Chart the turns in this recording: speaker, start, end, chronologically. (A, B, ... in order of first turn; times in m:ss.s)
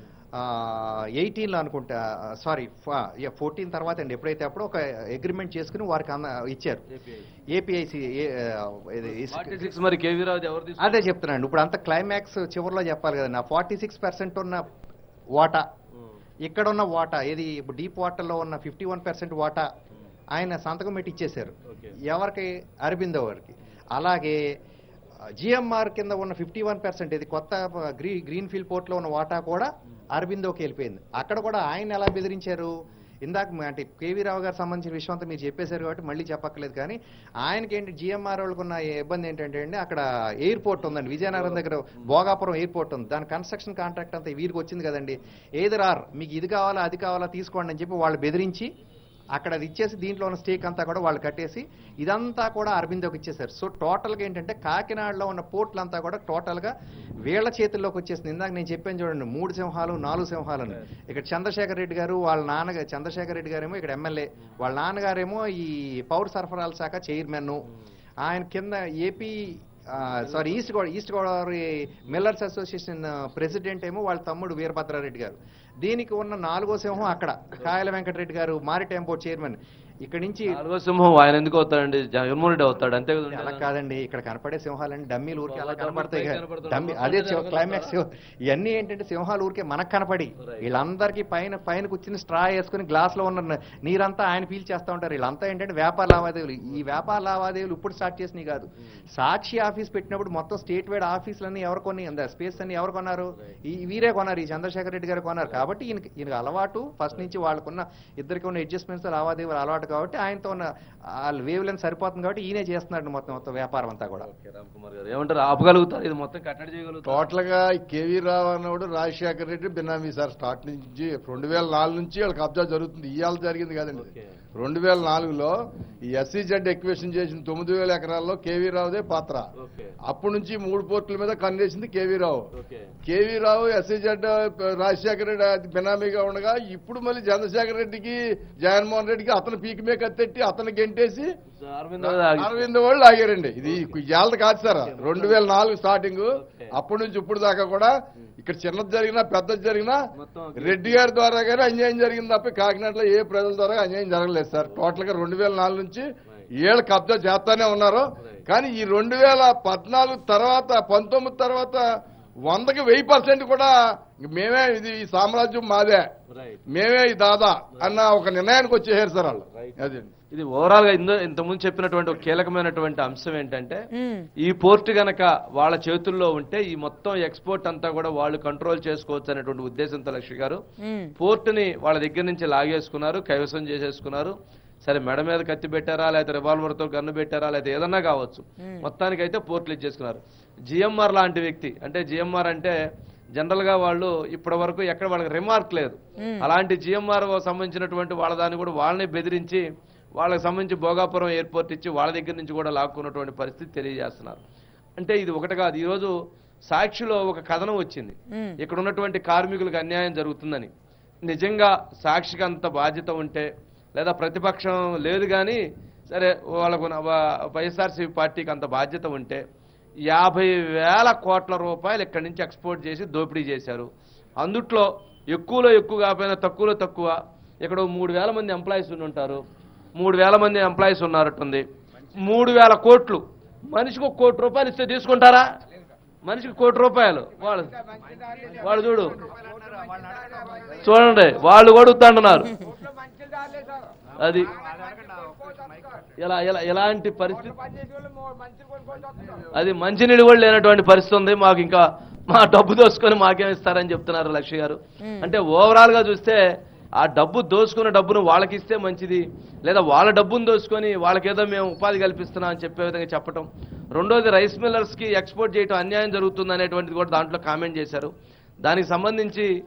0:00.4-0:06.8 A
0:06.9-0:07.2 B
0:07.5-0:09.7 A
0:09.0-0:11.1 B
0:10.8-0:14.6 A
0:15.4-0:15.6 A
0:16.4-0:19.7 A
0:20.4-0:21.5 A
0:21.7-0:22.0 B
0:22.1-0:24.4 A
0:25.4-0:32.7 A
0:33.2-0:48.7 A
0:49.4-0:56.7 A
0:57.2-1:07.6 A
1:08.2-1:20.6 A
1:20.5-1:23.6 B
1:23.3-1:54.3 A
1:25.5-1:27.9 B
1:30.4-1:30.7 B
1:54.2-1:57.2 B
1:57.0-2:05.5 C
2:04.0-2:04.2 B
2:06.1-2:09.4 C
2:09.6-2:09.9 B
2:10.0-2:12.4 C
2:12.6-2:12.9 B
2:13.0-2:21.3 C
2:21.5-2:22.7 B
2:22.0-2:30.0 C
2:23.6-2:24.0 B
2:24.8-2:25.4 B
2:26.4-2:26.7 B
2:30.2-2:31.0 B
2:30.6-2:36.1 C
2:36.6-2:41.8 C
2:42.4-2:46.1 C
2:46.3-2:46.6 B
2:46.7-2:50.1 C
2:50.3-2:53.8 B
2:53.9-2:54.3 D
2:54.4-3:00.6 B
3:00.8-3:01.1 D
3:01.2-3:12.8 B
3:08.6-3:08.9 D
3:13.4-3:19.6 B
3:16.2-3:16.5 D
3:20.2-3:24.4 B
3:25.0-3:26.1 B
3:26.7-3:30.7 B
3:28.3-3:28.6 D
3:31.3-3:39.4 B
3:40.1-3:43.9 B
3:44.4-3:49.4 B
3:50.0-3:55.5 B
3:56.2-3:57.8 B
3:58.6-3:59.2 B
3:59.2-4:00.9 A
4:00.8-4:02.6 B
4:04.2-4:04.5 B
4:04.4-4:06.0 A
4:06.2-4:07.6 B
4:09.5-4:16.4 B
4:15.0-4:15.3 D
4:17.0-4:28.1 B
4:28.6-4:29.5 B